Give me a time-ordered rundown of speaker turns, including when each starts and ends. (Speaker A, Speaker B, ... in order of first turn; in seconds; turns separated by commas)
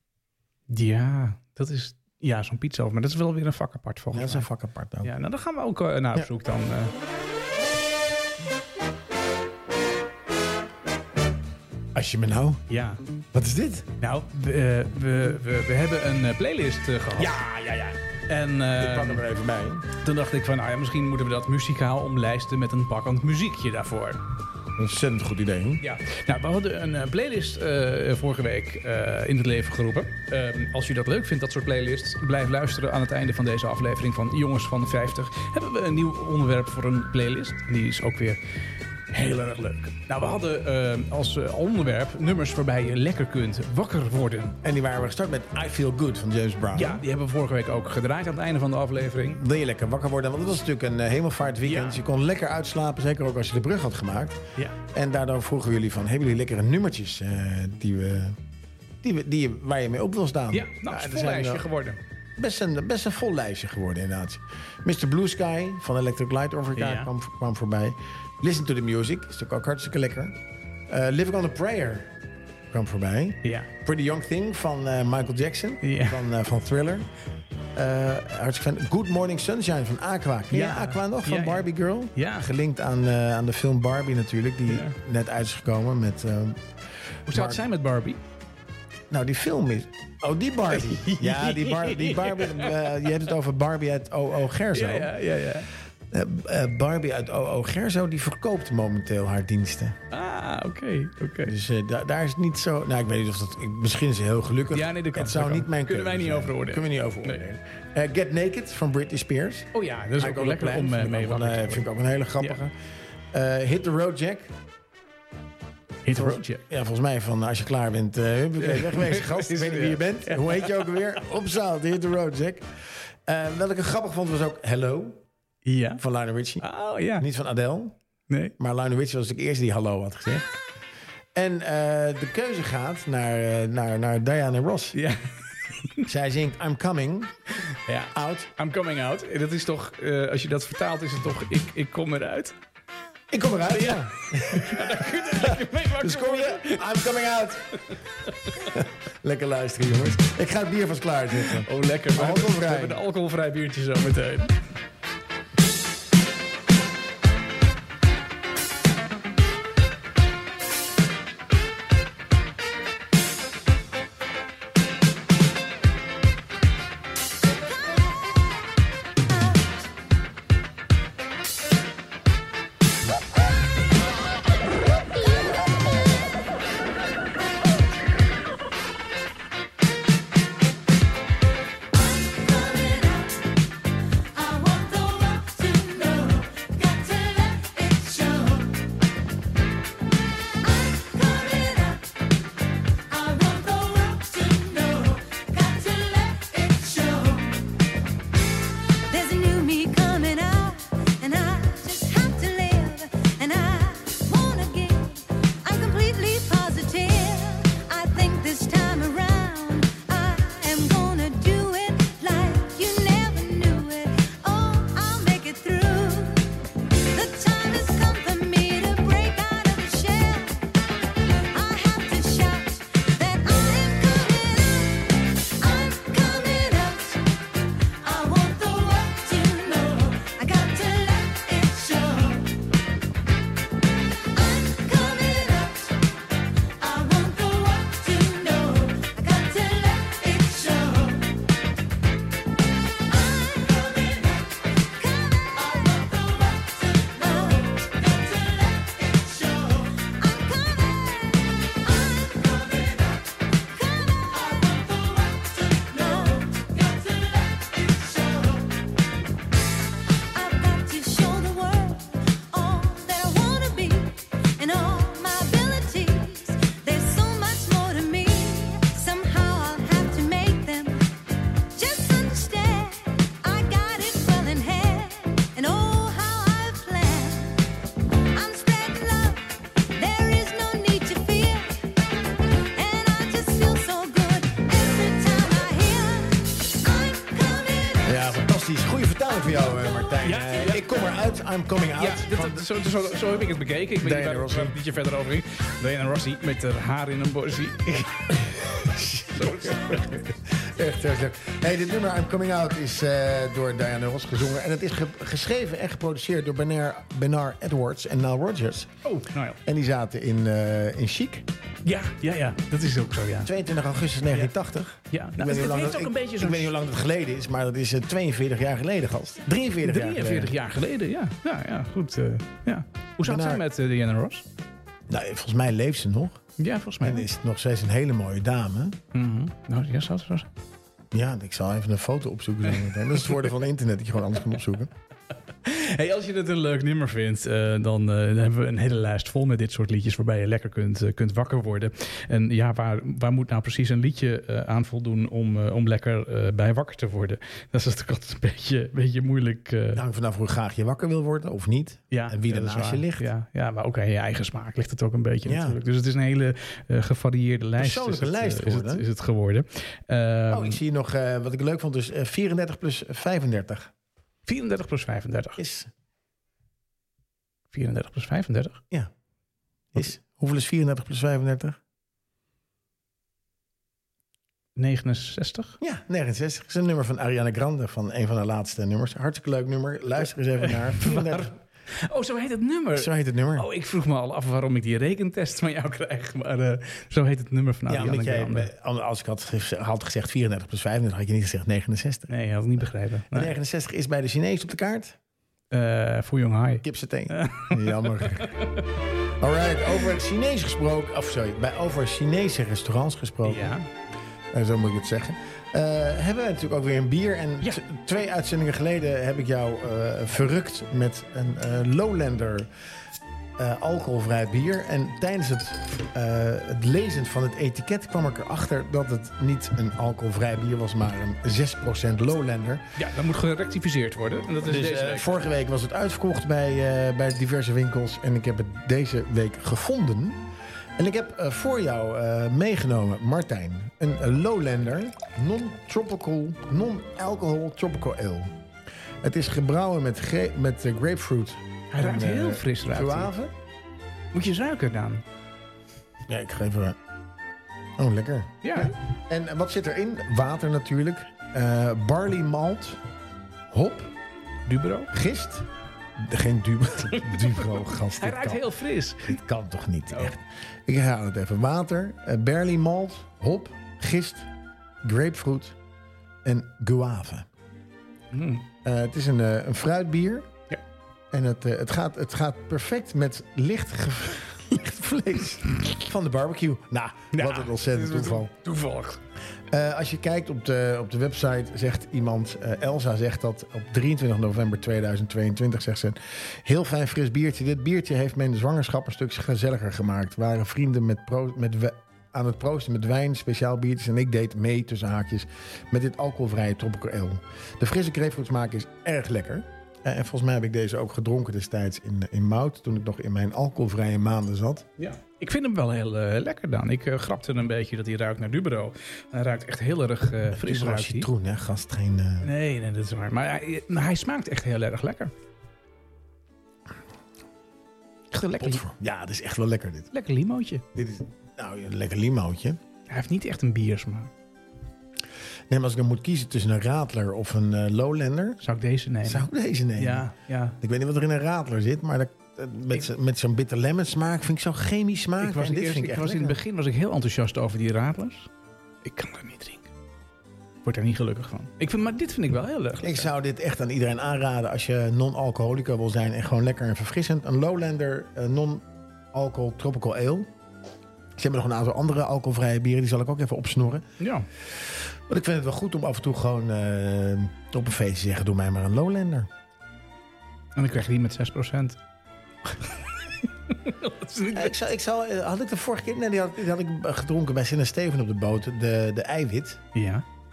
Speaker A: 0.7-4.5, Speaker B: 4.1-5.1, Speaker A: 5.0-6.9, Speaker B: 11.9-12.6, Speaker A: 12.7-13.0, Speaker B: 13.3-13.9, Speaker A: 14.0-17.4, Speaker B: 17.2-18.0, Speaker A: 18.3-19.2, Speaker B: 18.8-19.9, Speaker A: 20.0-24.2, Speaker B: 24.8-25.8, Speaker A: 25.8-38.4, Speaker A: 39.1-44.6, Speaker B: 44.6-47.0, Speaker A: 46.7-49.4, Speaker B: 49.4-58.4, Speaker A: 51.6-52.0, Speaker B: 59.0-61.7, Speaker A: 60.5-62.0, Speaker B: 62.4-70.4, Speaker A: 66.8-67.1, Speaker B: 70.9-72.1, Speaker B: 72.7-77.1, Speaker A: 73.4-73.7, Speaker A: 75.8-76.2, Speaker B: 77.8-86.7, Speaker A: 80.5-82.5, Speaker A: 84.7-85.0, Speaker B: 87.3-87.6, Speaker A: 87.3-88.2, Speaker B: 89.1-95.1, Speaker A: 90.7-92.9, Speaker A: 94.7-95.7, Speaker B: 96.1-100.0, Speaker A: 100.1-101.5, Speaker B: 101.5-112.7, Speaker A: 104.7-107.4, Speaker A: 109.7-111.8, Speaker B: 113.3-114.5, Speaker A: 116.0-116.6, Speaker B: 116.1-122.7, Speaker A: 118.6-120.9, Speaker B: 123.3-125.2, Speaker A: 125.7-126.0, Speaker B: 126.0-128.0, Speaker A: 126.6-127.3, Speaker A: 128.3-128.5, Speaker B: 128.6-130.5, Speaker B: 131.3-135.0, Speaker A: 134.9-136.1, Speaker B: 136.1-137.3, Speaker A: 137.7-142.6, Speaker B: 138.1-138.5, Speaker B: 143.3-147.7, Speaker A: 143.7-146.9, Speaker A: 147.9-148.7, Speaker B: 148.7-153.0, Speaker A: 151.4-154.6, Speaker C: 181.9-183.5, Speaker C: 184.3-188.8, Speaker C: 190.6-192.1, Speaker C: 193.1-197.7, Speaker C: 199.1-220.7, Speaker C: 221.5-227.3, Speaker C: 228.0-232.5, Speaker C: 234.2-236.1, Speaker C: 236.7-241.3, Speaker C: 243.1-258.8, Speaker C: 260.3-271.1, Speaker C: 271.8-277.7, Speaker C: 278.2-281.9, Speaker C: 282.6-288.2, Speaker B: 288.0-292.7, Speaker A: 290.2-291.0, Speaker A: 292.0-300.0, Speaker B: 294.0-294.8, Speaker B: 298.5-308.9, Speaker A: 309.0-309.6, Speaker B: 309.6-311.5, Speaker A: 311.9-313.5, Speaker B: 313.4-320.5, Speaker A: 315.1-316.7, Speaker A: 319.8-324.4, Speaker B: 323.2-323.6, Speaker B: 325.1-326.4, Speaker A: 326.6-327.3, Speaker B: 327.0-329.0, Speaker A: 329.1-330.5, Speaker B: 331.1-334.9, Speaker A: 335.6-350.0, Speaker B: 349.9-353.3, Speaker A: 352.1-360.8, Speaker B: 355.4-355.8, Speaker B: 357.8-359.1, Speaker B: 360.5-363.9, Speaker A: 364.5-365.6, Speaker B: 365.6-365.9, Speaker A: 367.7-368.8, Speaker B: 369.9-371.8, Speaker A: 374.8-375.8, Speaker B: 375.8-381.5, Speaker A: 380.6-388.7, Speaker B: 383.0-383.7, Speaker B: 387.9-392.3, Speaker A: 392.3-393.6, Speaker B: 393.3-395.2, Speaker A: 395.7-398.9, Speaker B: 396.8-398.6, Speaker B: 399.4-403.8, Speaker A: 403.4-403.9, Speaker B: 404.5-412.7, Speaker B: 413.6-422.9, Speaker A: 423.0-425.4, Speaker B: 424.6-430.4, Speaker B: 431.0-438.5, Speaker B: 439.2-443.5, Speaker A: 441.9-443.3, Speaker A: 444.3-445.2, Speaker B: 446.3-447.0, Speaker B: 448.0-453.0, Speaker A: 448.6-448.9, Speaker B: 453.7-454.1, Speaker A: 454.7-455.1, Speaker B: 455.1-458.6, Speaker A: 457.2-459.4, Speaker B: 459.2-464.5, Speaker B: 465.0-465.8, Speaker B: 466.4-467.5, Speaker A: 468.3-468.6, Speaker B: 468.8-470.5, Speaker B: 471.3-478.5, Speaker A: 477.3-479.2, Speaker B: 479.7-504.9, Speaker A: 505.0-511.3, Speaker B: 510.5-512.5, Speaker A: 512.4-515.3, Speaker A: 518.3-518.8, Speaker B: 518.6-520.1, Speaker A: 520.1-520.8, Speaker B: 521.0-522.8, Speaker A: 523.1-524.3, Speaker B: 525.7-528.6, Speaker A: 528.6-530.8, Speaker B: 529.2-536.6, Speaker A: 535.4-538.5, Speaker A: 539.0-539.9, Speaker A: 540.8-543.3, Speaker B: 543.0-550.5, Speaker B: 551.4-554.1, Speaker A: 554.2-554.5, Speaker B: 554.7-559.5, Speaker A: 560.8-562.0, Speaker A: 562.6-564.8, Speaker B: 564.5-569.8, Speaker A: 569.9-570.2